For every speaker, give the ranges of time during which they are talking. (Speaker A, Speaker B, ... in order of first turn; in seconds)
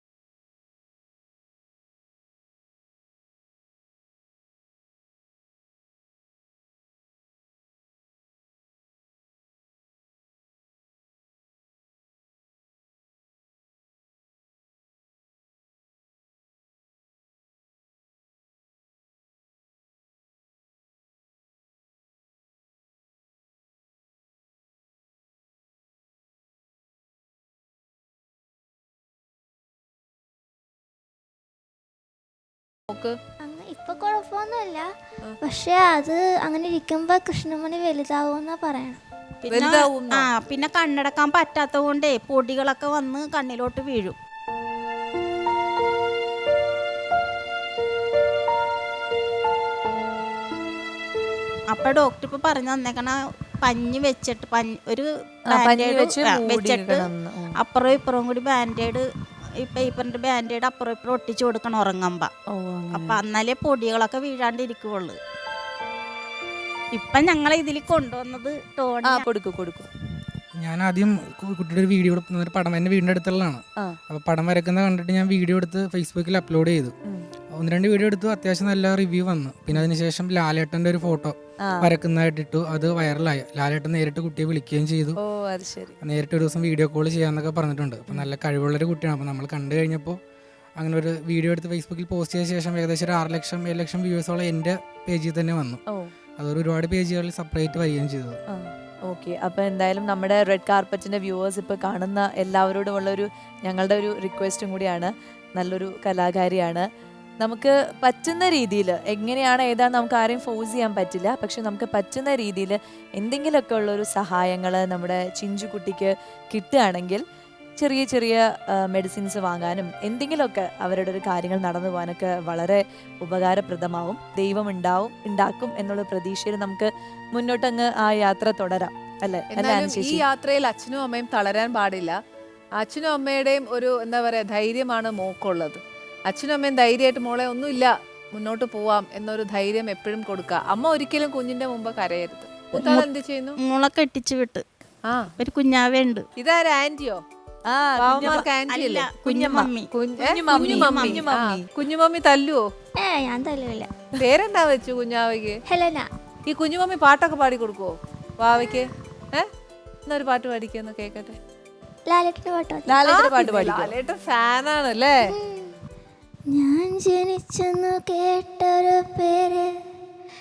Speaker A: 32.9-33.2, 39.5-40.3, 129.5-132.2, 132.8-143.6, 146.4-147.2, 148.0-149.1, 149.9-152.7, 154.2-155.6, 156.5-159.5, 160.1-161.4, 163.1-165.2
Speaker B: 33.5-34.8, 35.5-39.0, 153.0-153.9, 155.7-156.1, 162.1-163.0, 166.5-169.7
Speaker C: 39.5-44.1, 51.7-57.1, 57.6-59.0, 59.6-62.3, 62.9-65.2, 66.9-69.2, 142.8-143.1, 143.6-144.6, 145.4-146.2, 148.7-149.9, 150.5-151.3
Speaker D: 55.5-57.6, 62.5-63.2, 69.0-69.9, 81.6-81.9, 85.2-86.0, 98.5-106.9, 107.4-117.2, 117.8-130.2, 147.7-148.5, 149.2-151.7, 162.9-163.9
Speaker E: 70.6-76.9, 77.5-85.2, 86.0-90.2, 90.8-95.8, 96.4-98.4